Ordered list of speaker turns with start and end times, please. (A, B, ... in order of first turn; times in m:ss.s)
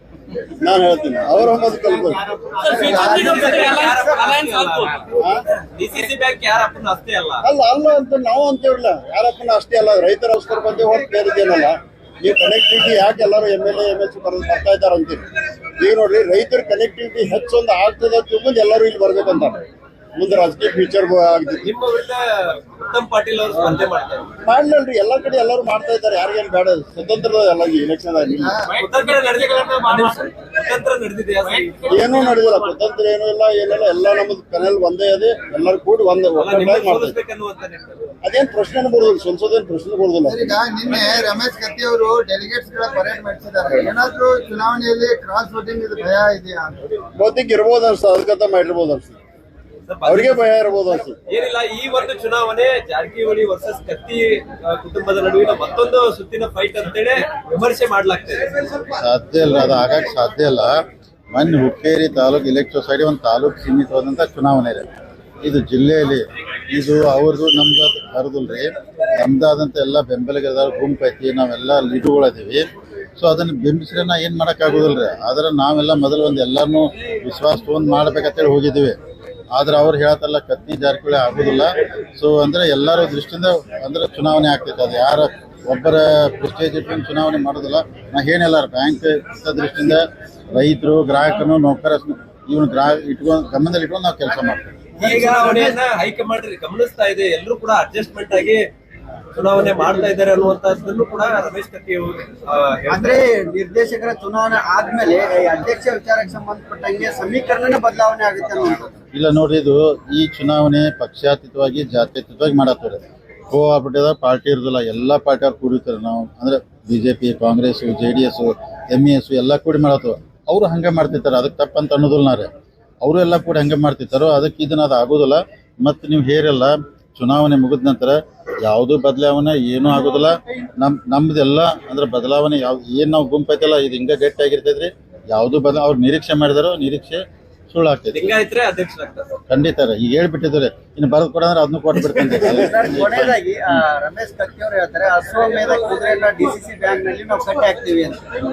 0:00.6-0:02.4 A
0:02.6-0:05.1 B
0:02.6-0:04.1 C
0:02.6-0:04.4 D
0:05.1-0:05.4 A
0:05.7-0:07.5 B
0:07.4-0:15.2 A
0:15.8-0:19.6 A
0:20.2-0:21.7 A
0:21.6-0:24.3 B
0:24.4-0:28.7 A
0:28.6-0:32.3 B
0:28.7-0:29.2 C
0:31.8-0:37.2 A
0:36.4-0:38.0 B
0:38.2-0:40.4 A
0:40.3-0:46.9 C
0:47.2-0:49.2 A
0:49.9-0:50.6 B
0:50.0-0:51.2 A
0:51.3-0:58.8 B
0:59.0-1:04.9 E
1:05.4-1:12.7 E
1:13.2-1:19.0 E
1:19.5-1:34.7 E
1:35.0-1:38.7 B
1:35.0-1:35.8 D
1:39.3-1:43.2 B
1:42.9-1:48.9 D
1:49.1-1:53.0 E
1:53.5-2:02.5 E
2:03.0-2:18.3 E
2:18.1-2:19.3 B
2:19.5-2:23.4 E
2:22.4-2:28.2 D